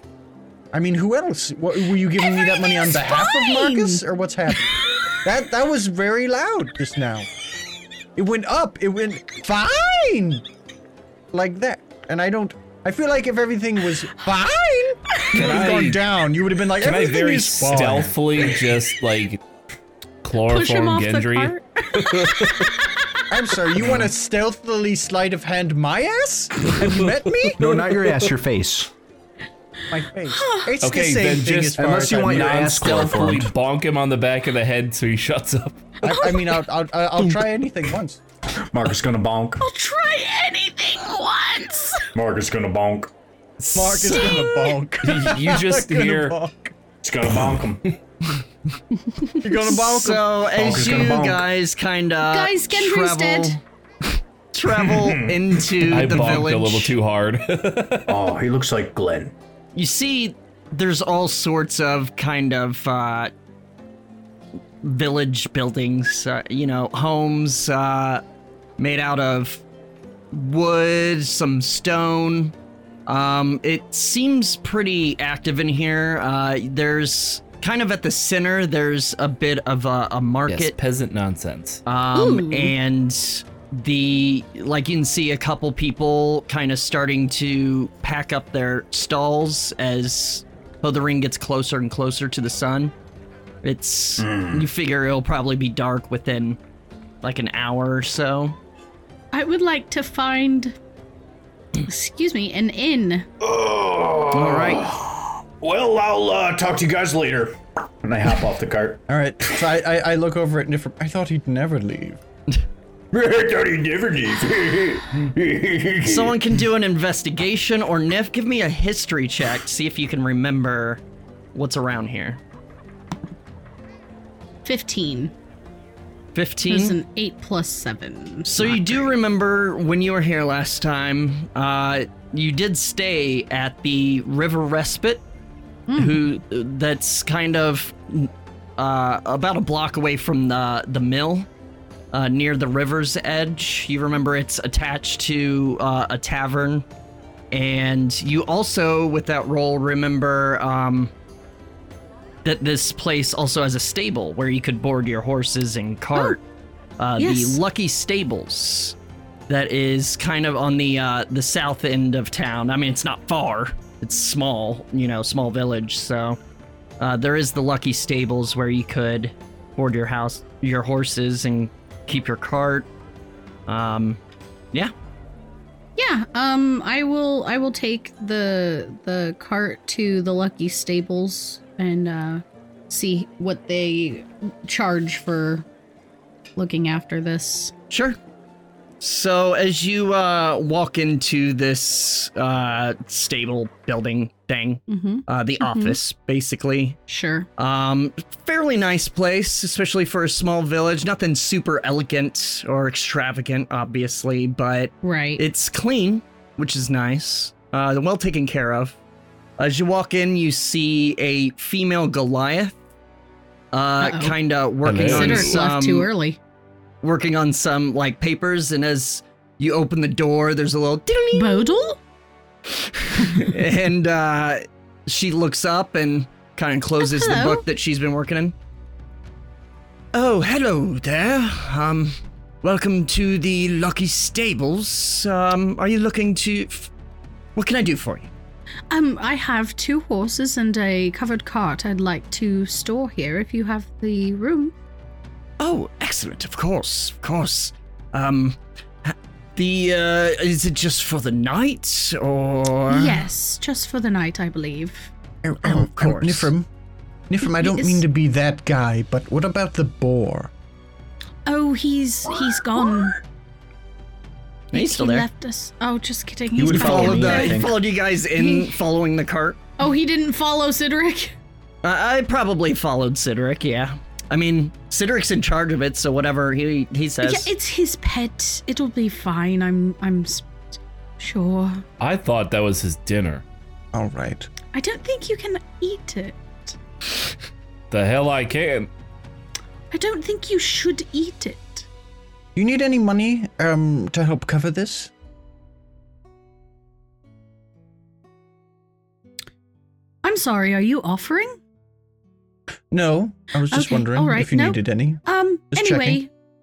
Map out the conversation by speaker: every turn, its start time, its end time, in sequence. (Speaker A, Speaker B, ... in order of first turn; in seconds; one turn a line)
Speaker A: 0.7-7.3
Speaker B: 2.2-4.0
Speaker A: 8.2-10.4
Speaker A: 11.3-18.4
Speaker C: 15.3-16.0
Speaker C: 16.8-19.4
Speaker C: 20.2-22.7
Speaker B: 20.4-22.8
Speaker A: 23.3-27.8
Speaker C: 23.8-24.1
Speaker C: 27.4-28.3
Speaker D: 27.6-28.9
Speaker A: 29.9-32.7
Speaker B: 30.3-30.7
Speaker C: 30.8-36.0
Speaker D: 31.8-33.5
Speaker A: 36.0-38.2
Speaker B: 36.0-36.4
Speaker D: 38.6-39.6
Speaker B: 39.6-42.1
Speaker D: 42.1-43.1
Speaker A: 43.7-46.7
Speaker E: 43.7-44.1
Speaker B: 44.0-44.8
Speaker C: 45.0-46.4
Speaker D: 47.0-47.8
Speaker A: 49.4-50.2
Speaker E: 49.7-53.6
Speaker D: 50.4-51.5
Speaker B: 52.3-53.6
Speaker E: 54.5-57.0
Speaker D: 54.7-56.2
Speaker C: 55.9-58.2
Speaker D: 58.1-59.3
Speaker E: 59.7-63.3
Speaker E: 64.8-68.2
Speaker E: 68.8-69.6
Speaker E: 70.3-72.5
Speaker E: 73.1-80.7
Speaker C: 80.5-81.8
Speaker E: 81.8-92.9
Speaker B: 82.1-82.7
Speaker E: 93.6-96.6
Speaker D: 94.2-94.6
Speaker E: 97.2-98.6
Speaker B: 99.3-100.8
Speaker B: 101.8-103.3
Speaker D: 103.4-109.0
Speaker E: 104.3-104.9
Speaker A: 109.1-112.2
Speaker D: 113.1-116.6
Speaker E: 116.0-121.0
Speaker E: 121.5-122.4
Speaker B: 124.6-125.3
Speaker E: 126.3-127.0
Speaker B: 126.7-128.9
Speaker E: 128.4-135.2
Speaker B: 135.9-136.2
Speaker E: 135.9-141.5
Speaker E: 142.1-146.8
Speaker E: 147.5-151.1
Speaker E: 152.4-156.4
Speaker E: 157.0-158.9
Speaker B: 157.2-157.6
Speaker E: 159.5-166.4
Speaker E: 167.0-172.9
Speaker E: 173.7-174.2
Speaker B: 176.0-185.7
Speaker B: 186.6-187.7
Speaker E: 187.9-188.2
Speaker E: 189.0-197.0
Speaker B: 194.9-196.0
Speaker B: 197.1-197.5
Speaker E: 197.6-209.0
Speaker B: 205.0-205.4
Speaker E: 209.6-212.8
Speaker E: 213.7-216.1
Speaker B: 214.0-214.4
Speaker C: 214.8-215.6
Speaker B: 214.9-216.4
Speaker E: 217.0-221.9
Speaker B: 221.3-222.0
Speaker E: 222.7-228.5
Speaker B: 227.0-227.6
Speaker E: 230.1-236.9
Speaker E: 237.6-238.3
Speaker B: 238.9-244.7
Speaker E: 245.6-253.2
Speaker B: 252.9-255.1
Speaker A: 255.4-256.7
Speaker E: 255.6-256.5
Speaker A: 257.3-260.5
Speaker B: 257.4-258.0
Speaker B: 261.4-263.2
Speaker E: 264.7-265.3
Speaker B: 264.7-267.6
Speaker D: 266.5-267.8
Speaker E: 266.7-269.6
Speaker B: 268.4-268.8
Speaker B: 269.8-271.4
Speaker E: 271.8-277.5
Speaker B: 277.2-280.6
Speaker B: 281.2-281.8
Speaker C: 282.0-283.4
Speaker A: 283.9-284.5
Speaker B: 284.7-286.8
Speaker C: 287.9-288.9
Speaker B: 289.9-291.9
Speaker A: 292.6-295.1
Speaker B: 300.2-301.6
Speaker A: 302.9-306.2
Speaker B: 303.7-306.3